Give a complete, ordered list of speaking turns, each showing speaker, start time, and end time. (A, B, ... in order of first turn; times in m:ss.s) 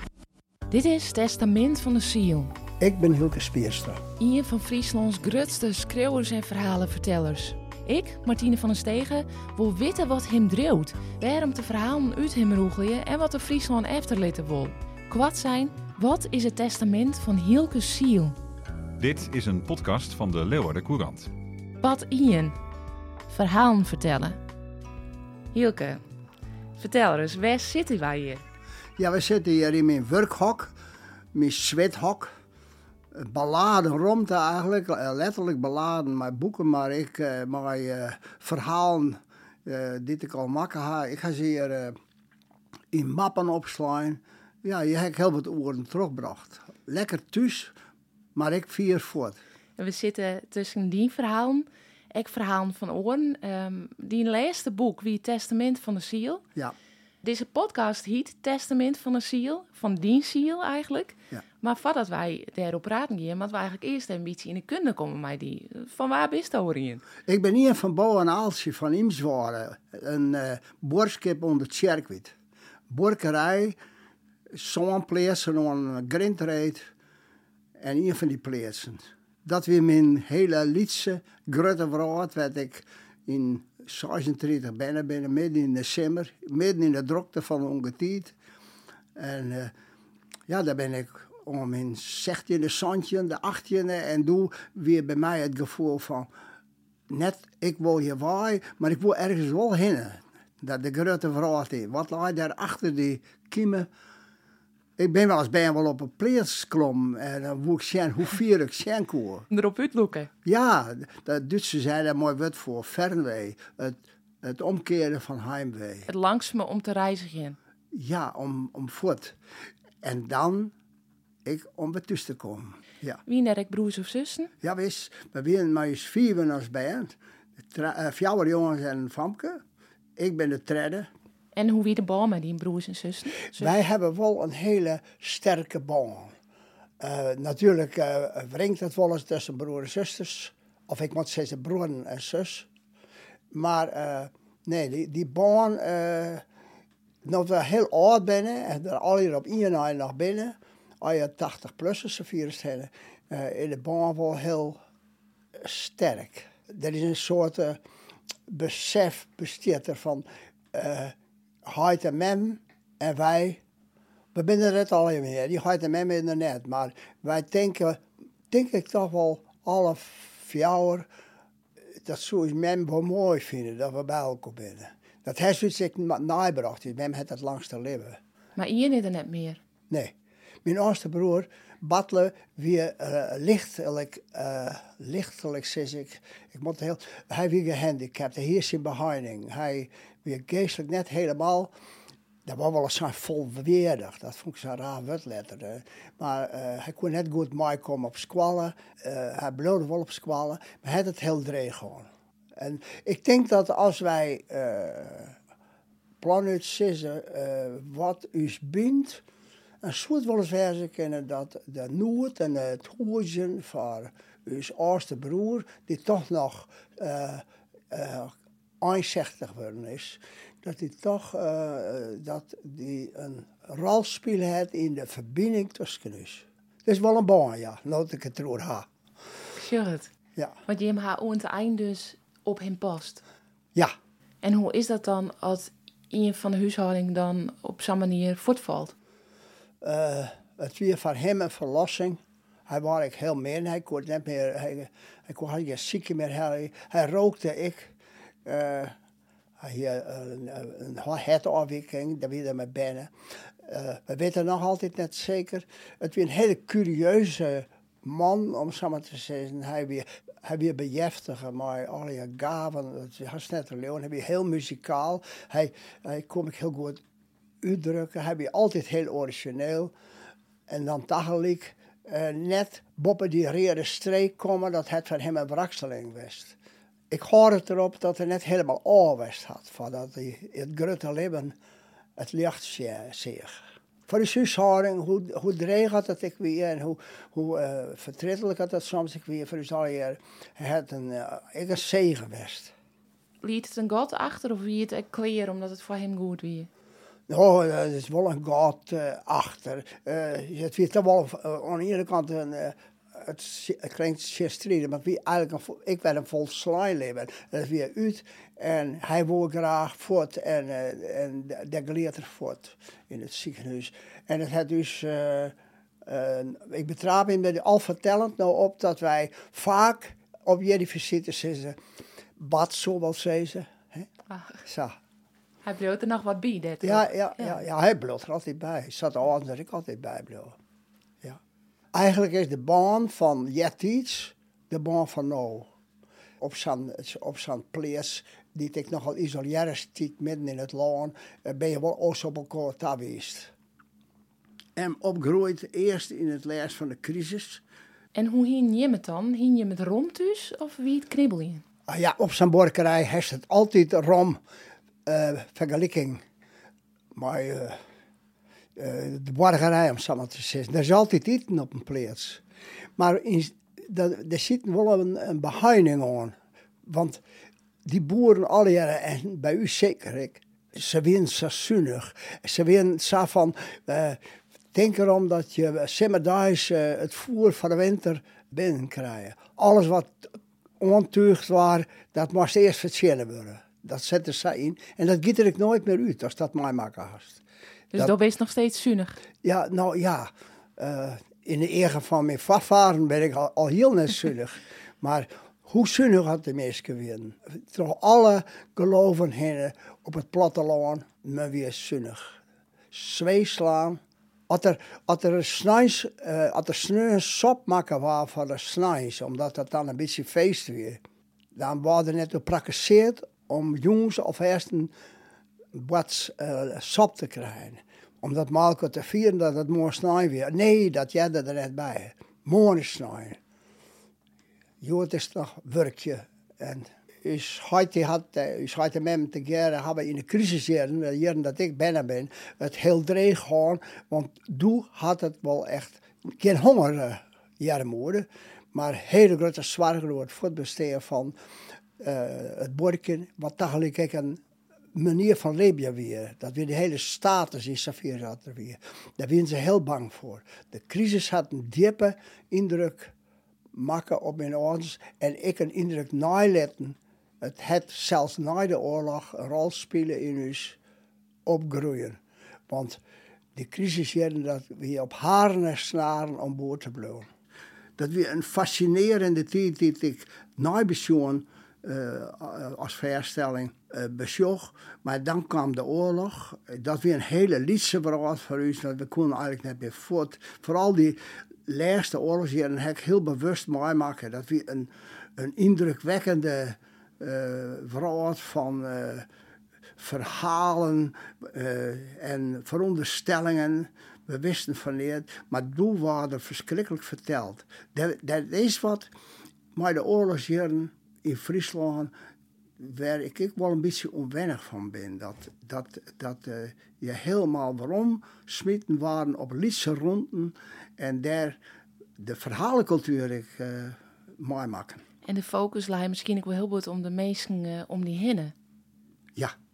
0:00.7-0:02.5 A
0:02.8-0:04.0 B
0:04.2-0:18.4 A
0:19.0-0:21.3 C
0:21.8-0:22.6 A
0:23.3-0:24.4 A
0:25.5-0:26.0 A
0:26.8-0:28.4 A
0:29.0-0:30.7 B
0:31.3-0:32.3 B
0:33.1-0:42.0 B
0:42.9-0:47.7 B
0:48.3-0:49.4 B
0:49.8-0:56.4 A
0:57.2-1:07.0 A
1:07.2-1:12.3 B
1:12.9-1:13.8 B
1:14.5-1:16.8 B
1:17.8-1:28.3 B
1:29.2-1:29.7 B
1:30.5-1:36.3 B
1:37.1-1:43.9 B
1:45.0-1:49.5 B
1:49.5-1:50.3 A
1:50.4-1:56.1 B
1:56.1-1:57.6 A
1:57.9-1:59.3 B
2:00.0-2:00.7 B
2:01.4-2:03.2 B
2:03.2-2:04.5 A
2:04.6-2:07.1 B
2:07.7-2:09.6 B
2:10.2-2:11.1 B
2:11.5-2:13.7 A
2:13.5-2:16.3 B
2:17.0-2:22.7 B
2:23.5-2:26.4 B
2:27.2-2:34.8 B
2:35.6-2:37.8 B
2:38.5-2:43.6 B
2:44.3-2:51.1 B
2:52.0-2:58.2 B
2:58.6-2:59.6 A
2:59.9-3:11.7 B
3:12.4-3:25.4 B
3:26.2-3:29.2 B
3:29.8-3:48.9 B
3:49.6-3:50.1 A
3:50.6-3:53.2 A
3:54.4-3:58.9 A
3:59.8-4:07.9 B
4:08.4-4:08.9 B
4:09.6-4:13.1 B
4:13.6-4:27.0 B
4:27.6-4:29.9 B
4:30.7-4:36.6 B
4:37.1-4:41.5 B
4:42.2-4:52.7 B
4:53.4-4:56.7 A
4:57.3-5:21.8 B
5:22.4-5:24.1 B
5:24.3-5:24.6 A
5:24.6-5:25.0 B
5:25.6-5:27.6 A
5:26.8-5:30.6 B
5:31.9-5:35.7 B
5:36.4-5:43.5 B
5:44.8-5:47.6 B
5:48.1-5:51.6 A
5:51.9-5:54.4 B
5:55.0-5:56.2 B
5:57.1-5:57.8 B
5:58.8-6:02.4 B
6:03.0-6:07.2 B
6:07.8-6:14.2 B
6:14.7-6:27.4 B
6:27.9-6:29.2 A
6:29.4-6:42.4 B
6:42.9-6:51.0 B
6:51.5-6:54.9 B
6:55.7-7:03.4 B
7:04.8-7:21.3 B
7:22.0-7:24.4 B
7:24.9-7:33.1 B
7:33.7-7:40.8 B
7:41.4-7:43.0 B
7:43.5-7:47.3 B
7:48.0-8:09.3 B
8:10.0-8:19.1 B
8:19.8-8:22.1 B
8:22.8-8:31.6 B
8:32.2-8:35.0 B
8:35.2-8:38.5 A